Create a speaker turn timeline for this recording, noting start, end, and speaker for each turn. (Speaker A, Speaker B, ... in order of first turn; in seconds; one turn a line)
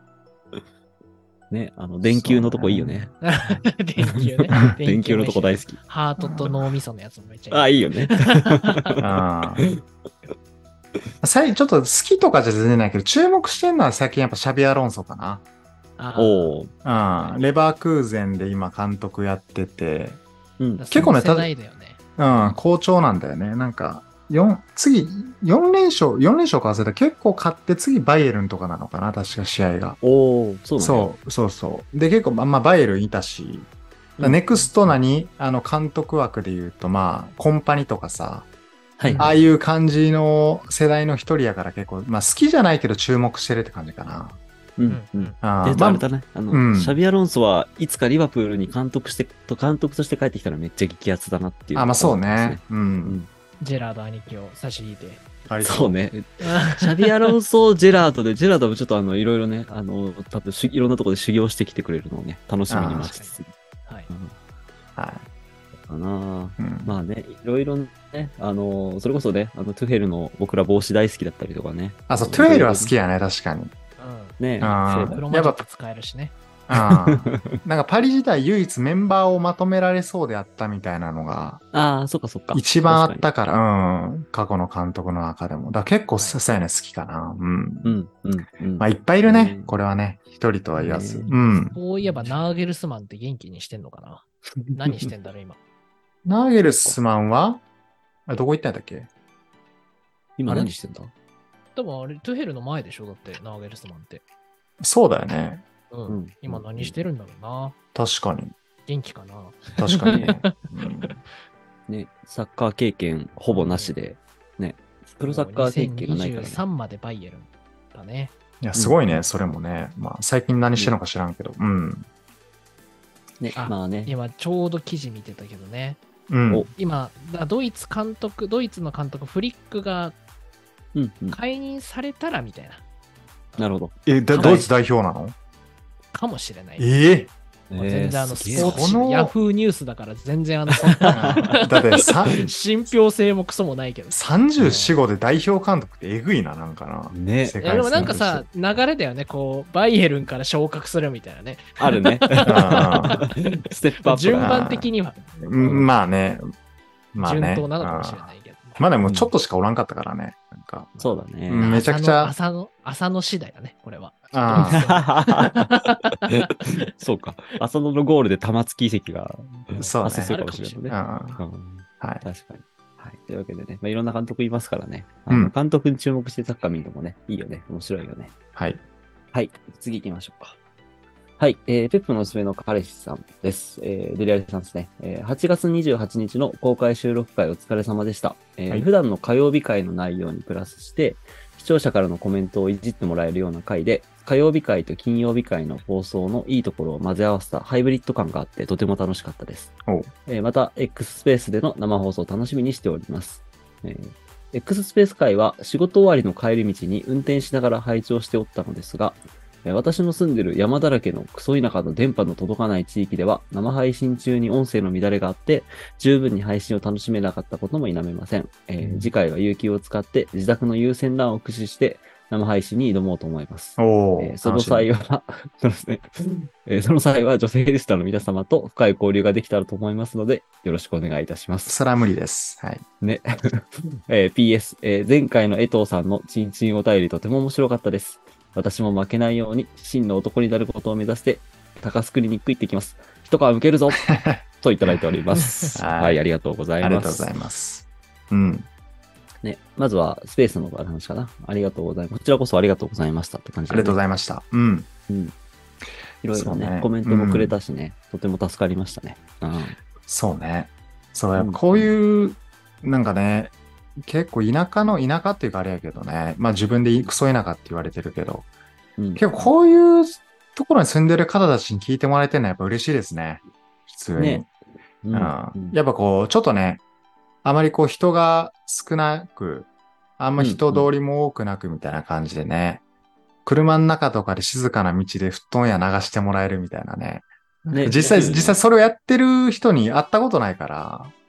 Speaker A: 1.5-3.1
Speaker B: 2.0-3.1
Speaker C: 3.2-8.9
Speaker A: 4.0-5.8
Speaker B: 6.2-6.5
Speaker A: 7.5-9.8
Speaker B: 9.0-9.6
Speaker B: 11.2-15.4
Speaker C: 16.0-16.6
Speaker A: 16.1-16.7
Speaker B: 16.8-20.2
Speaker A: 20.6-21.1
Speaker C: 20.8-22.0
Speaker B: 20.9-21.5
Speaker B: 22.2-30.0
Speaker A: 30.0-31.1
Speaker B: 30.8-33.7
Speaker B: 34.2-38.5
Speaker A: 39.0-39.3
Speaker C: 39.1-39.5
Speaker B: 39.1-44.4
Speaker A: 44.8-53.3
Speaker C: 44.9-45.3
Speaker B: 45.4-47.0
Speaker B: 51.7-53.2
Speaker C: 53.6-55.3
Speaker B: 55.5-56.0
Speaker A: 55.6-63.5
Speaker C: 56.4-57.3
Speaker B: 62.7-63.2
Speaker B: 65.0-65.3
Speaker A: 65.9-72.9
Speaker B: 66.6-67.0
Speaker B: 72.1-73.7
Speaker C: 74.0-76.3
Speaker A: 74.4-75.2
Speaker B: 74.6-75.6
Speaker B: 76.7-81.6
Speaker A: 76.7-77.6
Speaker A: 81.7-83.3
Speaker B: 82.5-88.0
Speaker A: 87.8-89.8
Speaker B: 88.8-91.8
Speaker A: 90.7-91.3
Speaker C: 91.7-95.6
Speaker A: 92.0-92.3
Speaker A: 94.7-95.1
Speaker B: 96.2-97.6
Speaker B: 98.3-99.1
Speaker A: 100.4-101.1
Speaker C: 101.8-104.2
Speaker B: 104.8-105.6
Speaker C: 105.9-107.7
Speaker A: 106.1-107.0
Speaker B: 108.0-108.5
Speaker C: 108.9-110.5
Speaker B: 109.8-111.1
Speaker A: 110.1-110.4
Speaker A: 111.9-116.6
Speaker C: 113.5-113.9
Speaker C: 115.2-118.3
Speaker B: 118.6-122.0
Speaker A: 118.7-119.0
Speaker A: 123.4-124.1
Speaker C: 123.5-126.0
Speaker B: 126.3-126.7
Speaker C: 126.8-130.2
Speaker A: 130.9-131.4
Speaker C: 131.3-132.8
Speaker A: 133.6-134.7
Speaker B: 134.2-135.3
Speaker C: 134.3-134.7
Speaker C: 136.1-136.9
Speaker B: 136.8-137.3
Speaker A: 137.7-138.9
Speaker C: 137.8-144.9
Speaker B: 138.5-139.3
Speaker A: 140.8-141.6
Speaker B: 141.1-142.5
Speaker B: 144.1-148.2
Speaker A: 147.1-148.4
Speaker C: 147.6-153.3
Speaker A: 151.8-154.7
Speaker B: 152.4-153.2
Speaker C: 154.0-155.9
Speaker B: 154.3-154.9
Speaker B: 155.4-156.4
Speaker B: 157.1-158.2
Speaker C: 157.2-158.9
Speaker B: 158.8-160.9
Speaker A: 159.0-159.3
Speaker C: 161.0-166.7
Speaker A: 161.0-161.8
Speaker B: 161.5-162.3
Speaker B: 164.3-165.0
Speaker A: 164.5-178.3
Speaker B: 169.8-171.4
Speaker C: 169.8-171.0
Speaker B: 175.3-175.5
Speaker B: 178.6-178.8
Speaker A: 179.3-180.6
Speaker A: 181.4-199.7
Speaker A: 200.3-231.8
Speaker B: 218.8-219.1
Speaker B: 223.8-224.9
Speaker B: 231.7-232.8
Speaker A: 233.0-247.3
Speaker B: 244.9-245.2
Speaker C: 245.3-245.7
Speaker B: 245.7-246.2
Speaker B: 246.8-248.7
Speaker A: 249.4-254.0
Speaker B: 253.7-254.9
Speaker A: 256.2-259.8
Speaker B: 256.3-257.6
Speaker B: 260.1-268.5
Speaker A: 261.4-261.9
Speaker A: 269.0-269.4
Speaker B: 269.2-274.5
Speaker A: 274.2-274.5
Speaker A: 275.0-275.8
Speaker B: 275.1-276.8
Speaker B: 277.4-279.7
Speaker B: 280.2-282.8
Speaker A: 280.4-280.9
Speaker B: 283.4-291.1
Speaker A: 287.7-288.6